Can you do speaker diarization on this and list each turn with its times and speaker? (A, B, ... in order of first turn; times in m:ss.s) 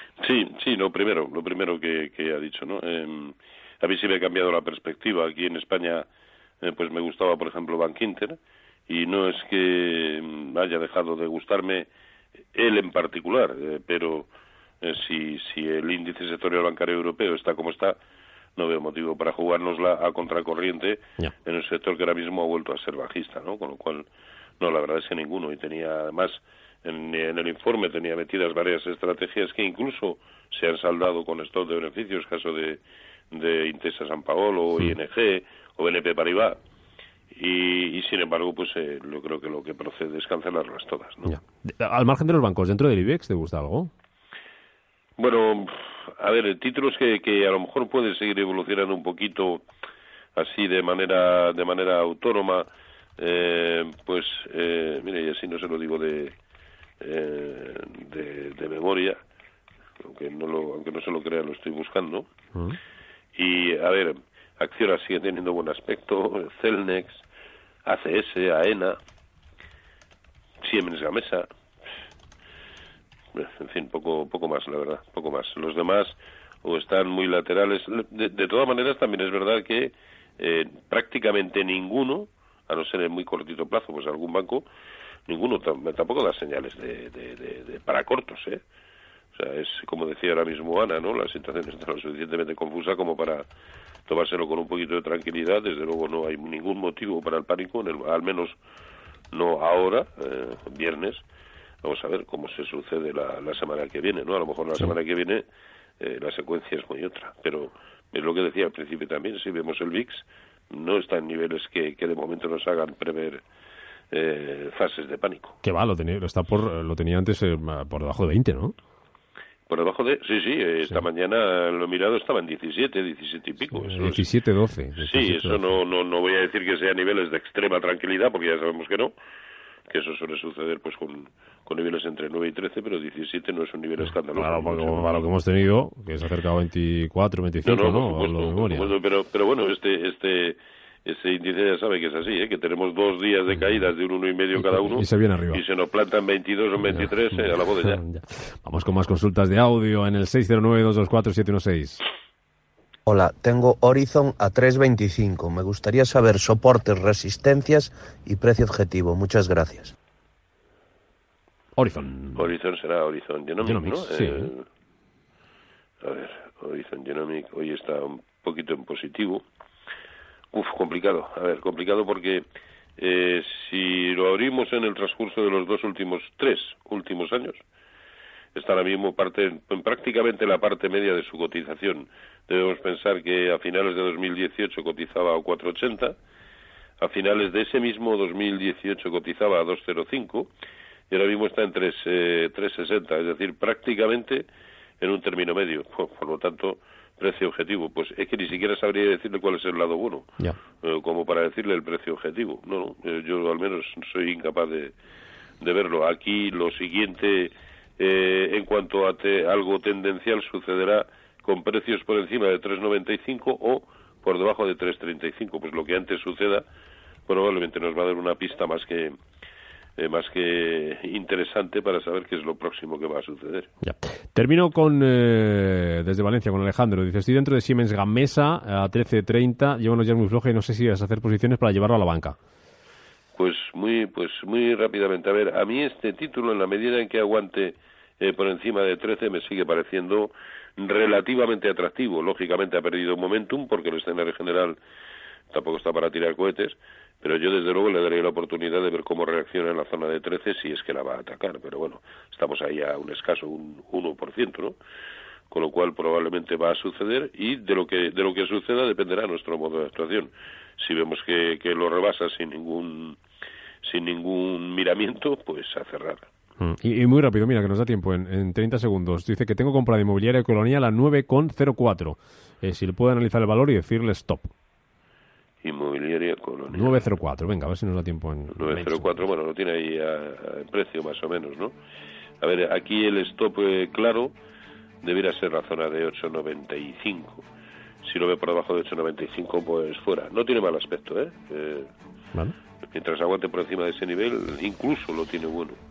0:00.2-0:06.0 A
0:06.6-0:08.4 A
0:08.9-0:11.9 A
0:12.5-0:14.3 A
0:14.8-0:18.0 A
0:18.6-0:24.0 A
0:24.6-0:32.8 A
0:33.3-0:36.6 A
0:37.3-0:41.3 A
0:41.2-0:43.9 B
0:45.2-0:49.6 A
0:50.4-0:56.3 A
0:57.0-0:59.2 A
1:00.0-1:02.3 A
1:03.3-1:07.2 A
1:07.8-1:09.0 A
1:10.6-1:11.4 A
1:13.3-1:24.6 A
1:25.3-1:28.6 A
1:29.3-1:33.4 A
1:34.1-1:38.6 A
1:39.3-1:41.2 A
1:41.8-1:45.4 A
1:46.0-1:53.4 A
1:54.1-1:55.6 A
1:55.6-1:58.8 B
1:59.7-2:04.2 A
2:03.7-2:05.7 B
2:05.0-2:09.1 A
2:09.9-2:15.1 A
2:14.3-2:18.9 B
2:17.6-2:28.0 A
2:24.6-2:25.6 B
2:26.8-2:32.0 B
2:33.0-2:39.9 C
2:41.8-2:42.5 B
2:42.4-2:44.6 A
2:43.6-2:44.5 B
2:46.0-2:49.4 A
2:50.5-2:52.4 A
2:53.0-2:57.6 A
2:58.5-3:06.1 A
3:07.0-3:10.5 A
3:11.1-3:14.4 A
3:15.0-3:24.9 A
3:25.6-3:36.6 A
3:37.3-3:39.2 A
3:40.0-3:43.7 A
3:43.8-3:52.4 B
3:53.3-4:04.8 A
4:05.5-4:14.8 A
4:15.5-4:23.2 A
4:23.8-4:26.3 A
4:26.6-4:34.5 B
4:35.6-4:37.1 A
4:36.7-4:39.2 B
4:38.5-4:41.7 A
4:42.4-4:44.3 A
4:45.0-4:47.4 A
4:48.0-4:51.9 A
4:52.9-4:55.8 A